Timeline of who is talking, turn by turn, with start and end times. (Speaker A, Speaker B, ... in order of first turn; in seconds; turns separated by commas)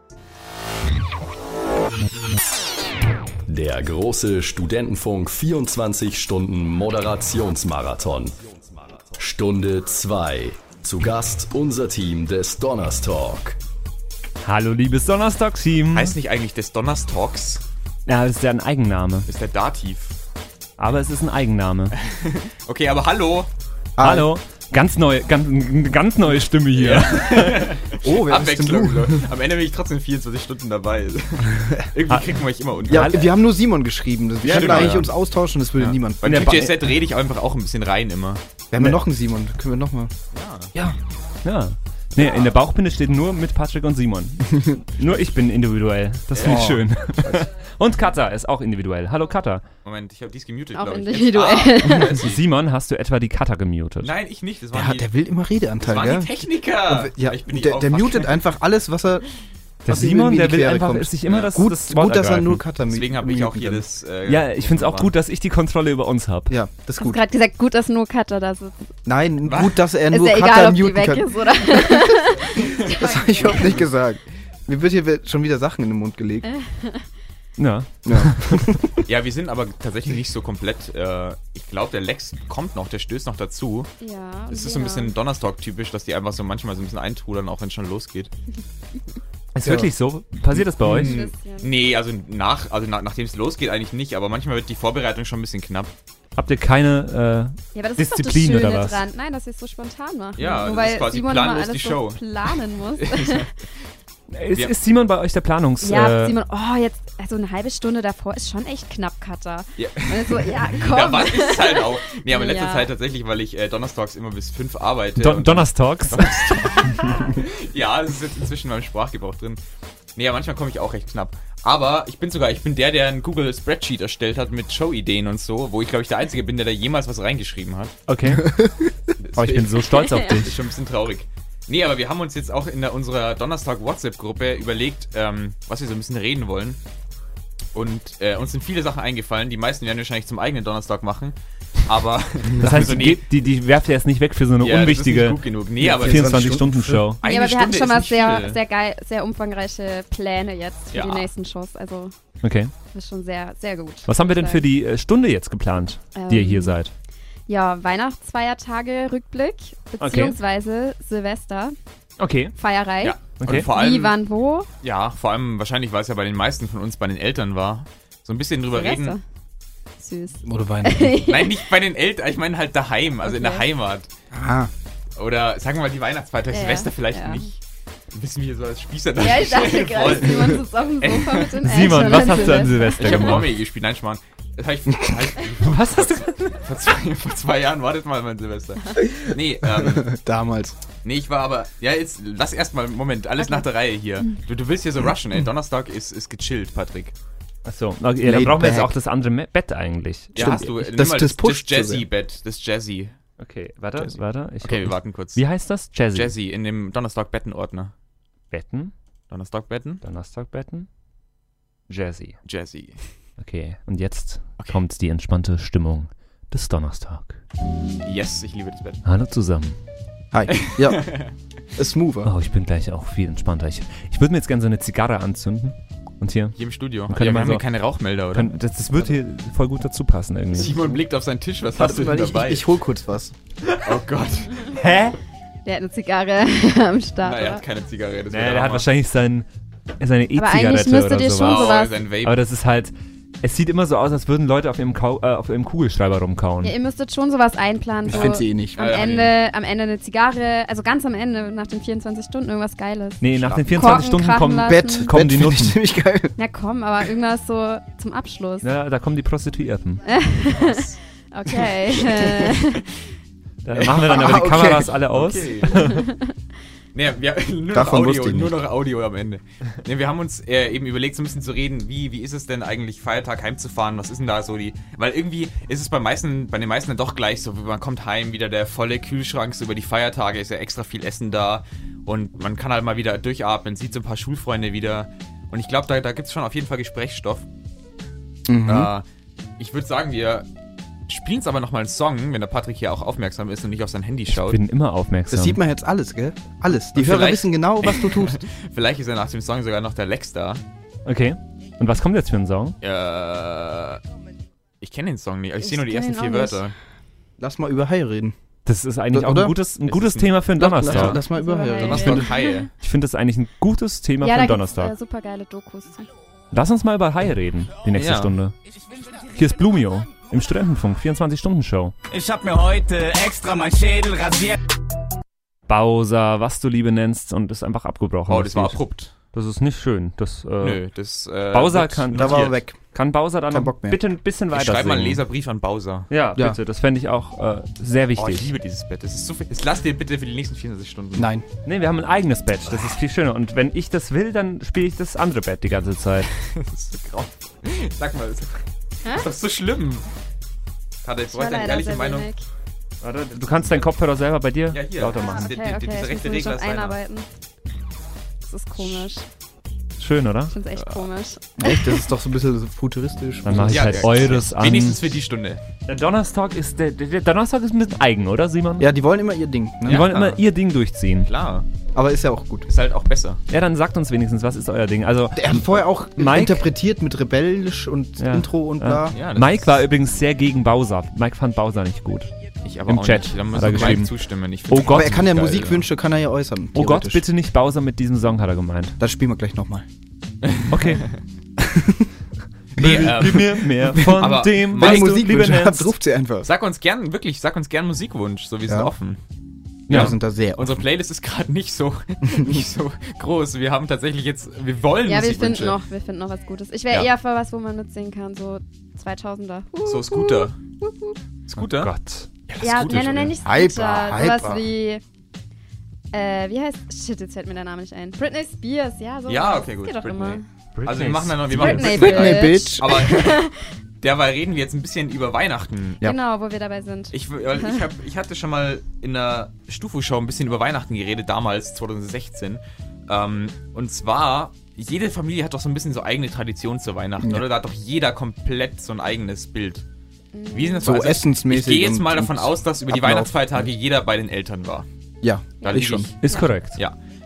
Speaker A: 3.5-13.6, Speaker B: 14.4-16.1, Speaker C: 15.9-17.6, Speaker B: 18.1-19.3, Speaker C: 19.3-20.2, Speaker B: 20.8-21.9, Speaker C: 22.0-23.5, Speaker D: 24.0-24.3, Speaker B: 24.0-27.7, Speaker C: 26.8-33.2, Speaker D: 28.0-29.2, Speaker D: 31.6-31.8, Speaker B: 32.9-33.3, Speaker D: 32.9-36.7, Speaker C: 34.4-35.1, Speaker B: 34.5-34.9, Speaker C: 35.8-38.4, Speaker B: 36.2-36.7, Speaker D: 38.7-40.1, Speaker C: 40.3-40.7, Speaker B: 41.4-49.6, Speaker C: 42.1-42.5, Speaker C: 46.3-46.8, Speaker D: 46.4-47.4, Speaker C: 49.8-52.4, Speaker E: 50.7-52.1, Speaker B: 52.2-54.1, Speaker C: 54.0-55.1, Speaker D: 54.7-56.3, Speaker C: 55.8-58.5, Speaker D: 56.9-59.3, Speaker B: 59.8-62.6, Speaker D: 59.9-63.8, Speaker C: 61.3-61.5, Speaker C: 62.9-65.1, Speaker B: 64.3-66.5, Speaker D: 66.5-67.2, Speaker E: 67.0-68.9, Speaker D: 69.0-72.1, Speaker C: 69.5-69.8, Speaker E: 70.1-73.7, Speaker C: 72.5-73.8, Speaker D: 72.8-76.5, Speaker E: 76.4-77.1, Speaker B: 77.6-78.7, Speaker D: 78.0-78.9, Speaker C: 79.0-83.9, Speaker E: 84.0-85.1, Speaker C: 84.5-88.3, Speaker B: 89.5-91.2, Speaker D: 89.6-89.9, Speaker C: 90.8-95.9, Speaker E: 91.0-91.7, Speaker B: 96.4-99.0, Speaker E: 97.7-103.5, Speaker C: 100.4-103.5, Speaker B: 104.3-106.3, Speaker E: 105.8-112.9, Speaker C: 109.8-119.6, Speaker B: 115.2-117.2, Speaker C: 120.2-128.0, Speaker B: 128.1-128.6, Speaker D: 128.4-128.9, Speaker C: 129.2-136.8, Speaker B: 129.3-130.5, Speaker C: 137.7-143.2, Speaker D: 142.6-142.9, Speaker B: 142.6-147.2, Speaker C: 144.6-146.7, Speaker D: 145.8-147.1, Speaker C: 147.2-148.6, Speaker E: 147.2-152.1, Speaker C: 150.9-151.3, Speaker B: 152.4-152.7, Speaker E: 152.9-154.6, Speaker B: 154.1-156.9, Speaker E: 156.1-156.8, Speaker E: 157.5-161.8, Speaker B: 160.0-160.4, Speaker B: 162.2-162.5, Speaker E: 162.6-164.7, Speaker C: 163.0-164.2, Speaker B: 163.4-163.7, Speaker C: 164.8-169.2, Speaker E: 168.7-169.2, Speaker E: 170.0-171.6, Speaker D: 170.4-171.2, Speaker C: 171.2-174.1, Speaker E: 173.2-173.6, Speaker D: 174.3-174.7, Speaker C: 175.2-177.6, Speaker E: 176.5-177.4, Speaker C: 178.1-190.2, Speaker E: 179.2-183.4, Speaker B: 181.6-183.6, Speaker B: 185.6-186.5, Speaker D: 189.7-190.8, Speaker C: 191.0-197.1, Speaker B: 197.7-200.7, Speaker D: 198.2-198.9, Speaker C: 200.3-203.2, Speaker D: 200.3-202.1, Speaker B: 203.4-206.3, Speaker C: 204.6-207.9, Speaker B: 208.5-208.9, Speaker C: 209.3-210.0, Speaker B: 210.0-210.9, Speaker B: 211.9-212.4, Speaker C: 212.4-213.2, Speaker B: 213.4-217.4, Speaker C: 218.0-219.0, Speaker B: 219.0-219.8, Speaker D: 220.3-222.3, Speaker C: 220.5-221.3, Speaker B: 222.2-230.8, Speaker C: 226.6-229.1, Speaker C: 230.5-232.7, Speaker D: 231.8-233.3, Speaker C: 233.8-234.8, Speaker B: 234.7-235.2, Speaker E: 235.7-237.6, Speaker C: 237.2-238.9, Speaker B: 238.3-239.5, Speaker B: 240.0-246.7, Speaker E: 240.4-242.0, Speaker C: 241.4-242.4, Speaker E: 246.6-255.1, Speaker D: 248.1-248.9, Speaker C: 248.8-249.3, Speaker B: 253.2-255.8, Speaker C: 253.4-254.0, Speaker D: 254.7-256.3, Speaker E: 256.4-258.7, Speaker B: 258.6-260.2, Speaker E: 260.0-262.8, Speaker C: 260.6-260.9, Speaker B: 263.6-266.1, Speaker C: 263.7-264.4, Speaker D: 264.0-265.0, Speaker C: 265.1-265.9, Speaker E: 265.9-266.1, Speaker C: 266.9-287.4, Speaker D: 267.7-268.6, Speaker D: 288.5-288.9, Speaker C: 288.6-289.0, Speaker C: 289.6-290.5, Speaker C: 291.1-294.6, Speaker B: 294.3-295.6, Speaker D: 295.3-298.4, Speaker C: 296.9-300.6, Speaker B: 301.0-302.8, Speaker C: 302.8-304.0, Speaker C: 304.8-306.7, Speaker E: 305.6-306.6, Speaker D: 307.4-308.4, Speaker B: 308.6-311.2, Speaker D: 309.1-309.6, Speaker C: 309.9-312.7, Speaker D: 310.6-312.2, Speaker E: 311.3-312.6, Speaker B: 312.0-314.9, Speaker E: 314.2-316.1, Speaker B: 316.5-318.6, Speaker C: 317.9-318.3, Speaker B: 319.2-321.9, Speaker F: 322.1-324.6, Speaker B: 325.7-328.8, Speaker C: 328.3-329.2, Speaker B: 329.3-330.8, Speaker C: 330.6-332.6, Speaker B: 331.5-335.2, Speaker D: 332.1-332.9, Speaker D: 333.5-334.0, Speaker C: 334.5-336.1, Speaker B: 336.1-338.5, Speaker C: 338.2-341.3, Speaker D: 341.1-341.4, Speaker B: 341.6-346.3, Speaker C: 346.4-350.1, Speaker C: 351.0-352.3, Speaker E: 351.3-352.4, Speaker B: 353.0-355.5, Speaker C: 353.3-353.9, Speaker C: 354.7-357.0, Speaker E: 355.2-357.3, Speaker E: 358.4-359.2, Speaker B: 360.0-360.5, Speaker E: 360.5-362.0, Speaker C: 360.8-361.1, Speaker D: 361.6-364.3, Speaker B: 363.4-365.0, Speaker C: 363.6-365.6, Speaker B: 365.9-368.9, Speaker D: 368.8-370.1, Speaker C: 369.9-370.4, Speaker B: 369.9-371.3, Speaker C: 371.2-371.6, Speaker D: 371.9-372.7, Speaker C: 372.7-373.4, Speaker B: 373.5-376.6, Speaker D: 375.3-379.2, Speaker B: 378.2-382.3, Speaker C: 379.1-379.8, Speaker C: 382.6-385.8, Speaker B: 382.9-384.1, Speaker B: 384.7-385.3, Speaker D: 384.8-387.2, Speaker B: 386.7-388.9, Speaker D: 389.0-389.8, Speaker C: 390.4-391.2, Speaker B: 390.7-391.1, Speaker D: 391.6-392.1, Speaker C: 392.7-395.2, Speaker B: 392.8-395.9, Speaker D: 392.8-396.5, Speaker C: 396.4-399.2, Speaker B: 399.9-400.1, Speaker D: 399.9-400.8, Speaker C: 399.9-405.8, Speaker D: 402.4-402.6, Speaker E: 405.1-411.2, Speaker C: 409.9-410.6, Speaker C: 411.5-411.9, Speaker B: 411.6-412.3, Speaker C: 412.5-413.3, Speaker E: 412.6-415.0, Speaker D: 413.4-414.6, Speaker E: 416.1-420.4, Speaker C: 419.3-423.5, Speaker B: 420.8-422.0, Speaker D: 421.5-423.1, Speaker E: 421.6-423.6, Speaker C: 424.0-426.0, Speaker E: 426.0-427.8, Speaker C: 427.1-439.8, Speaker E: 440.3-440.9, Speaker C: 440.5-444.9, Speaker D: 440.8-443.7, Speaker D: 445.2-446.1, Speaker E: 445.6-446.5, Speaker C: 445.6-446.9, Speaker B: 446.2-446.8